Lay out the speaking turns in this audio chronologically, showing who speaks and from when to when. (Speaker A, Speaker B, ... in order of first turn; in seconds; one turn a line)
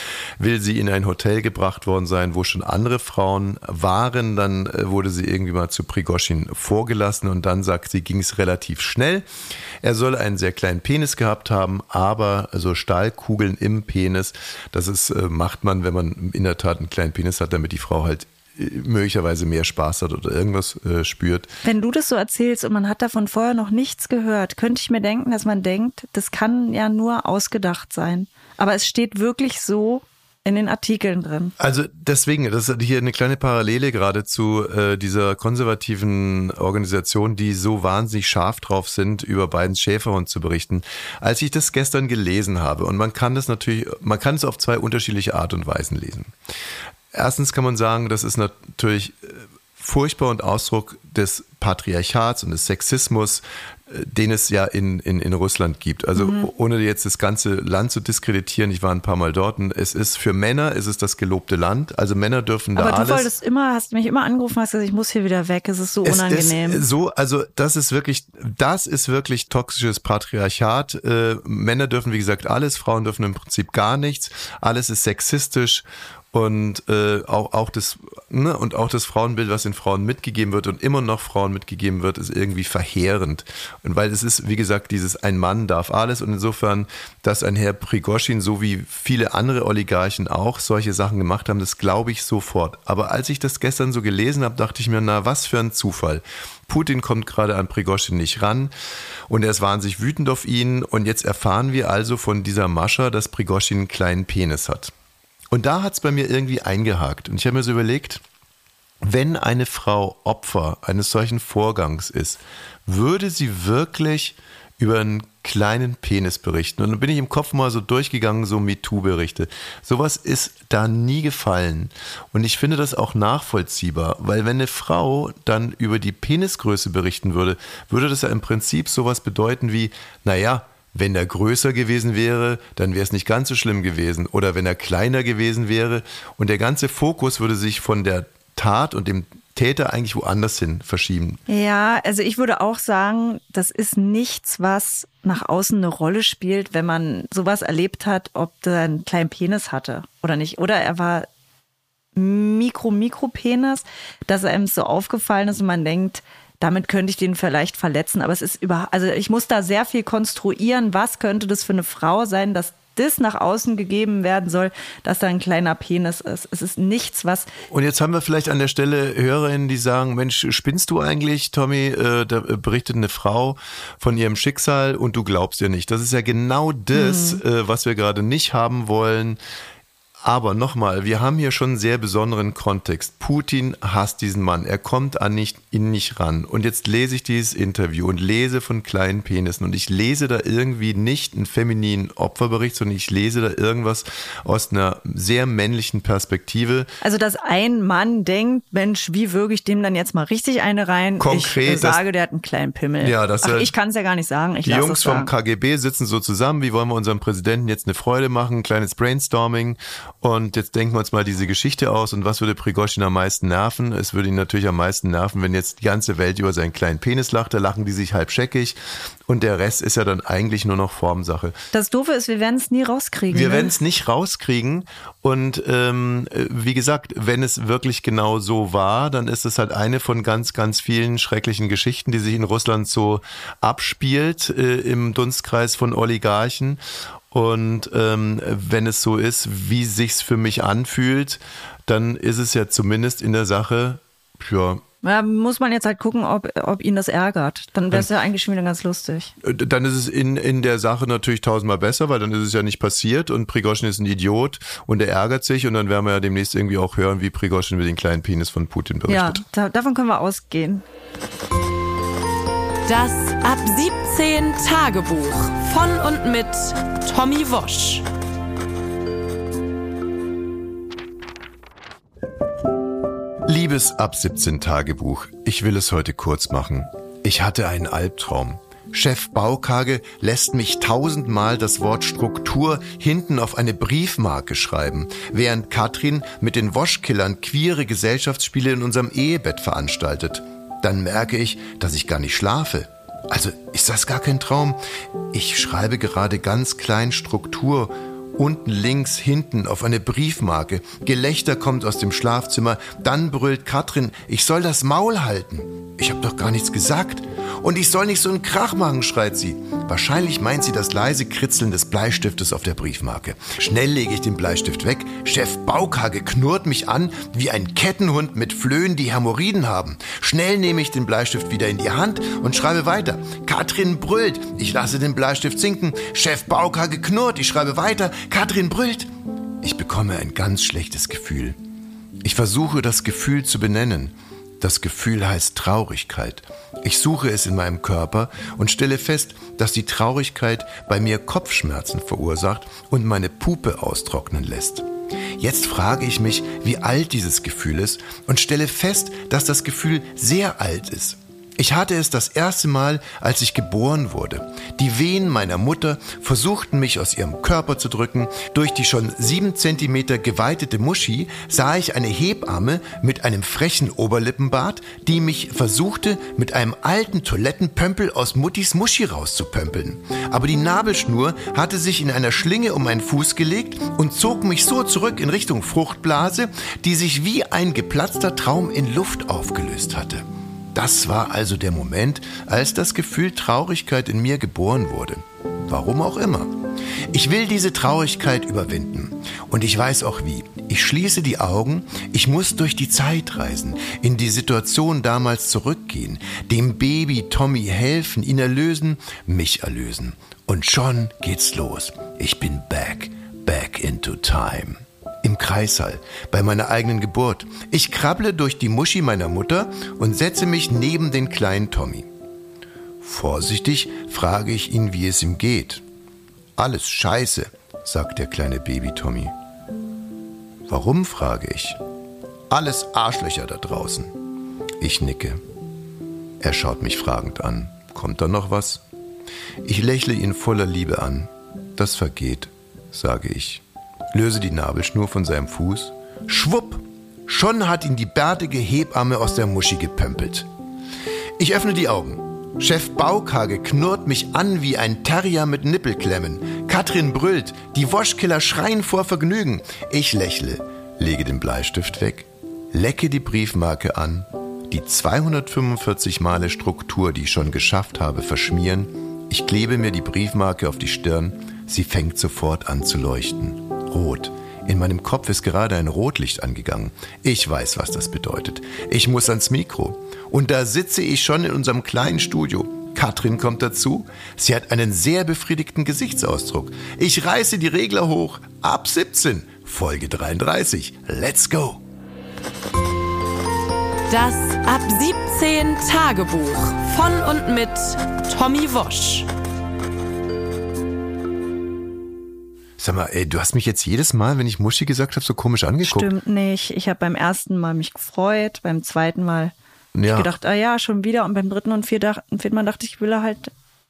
Speaker A: 0.4-9.3
Speaker A: 9.8-21.5
Speaker B: 21.6-31.5
Speaker A: 31.6-46.3
Speaker A: 47.1-63.3
Speaker B: 56.2-56.5
Speaker B: 62.8-66.9
Speaker A: 66.0-98.7
Speaker A: 99.3-104.9
Speaker A: 105.5-108.2
Speaker A: 109.0-141.4
Speaker B: 141.5-151.3
Speaker B: 152.2-167.5
Speaker A: 167.7-179.4
Speaker B: 176.9-177.4
Speaker A: 180.2-196.9
Speaker B: 197.0-205.3
Speaker A: 201.2-202.0
Speaker A: 203.0-203.7
Speaker A: 204.6-221.6
Speaker B: 221.7-223.7
Speaker A: 223.3-236.8
Speaker A: 237.3-244.8
Speaker B: 245.0-249.3
Speaker A: 249.4-259.4
Speaker B: 259.1-260.9
Speaker C: 262.9-268.1
Speaker A: 273.4-294.8
Speaker A: 295.3-329.1
Speaker A: 329.6-331.6
Speaker A: 332.2-386.6
Speaker A: 387.1-412.1
Speaker A: 413.0-415.8
Speaker A: 416.6-419.3
Speaker A: 420.7-421.8
Speaker A: 422.5-424.2
Speaker A: 424.8-425.4
Speaker A: 426.4-428.8
Speaker A: 429.6-440.5
Speaker A: 441.4-481.8
Speaker C: 484.1-489.3
Speaker A: 492.8-496.1
Speaker B: 495.8-499.5
Speaker A: 499.9-500.3
Speaker B: 500.1-503.5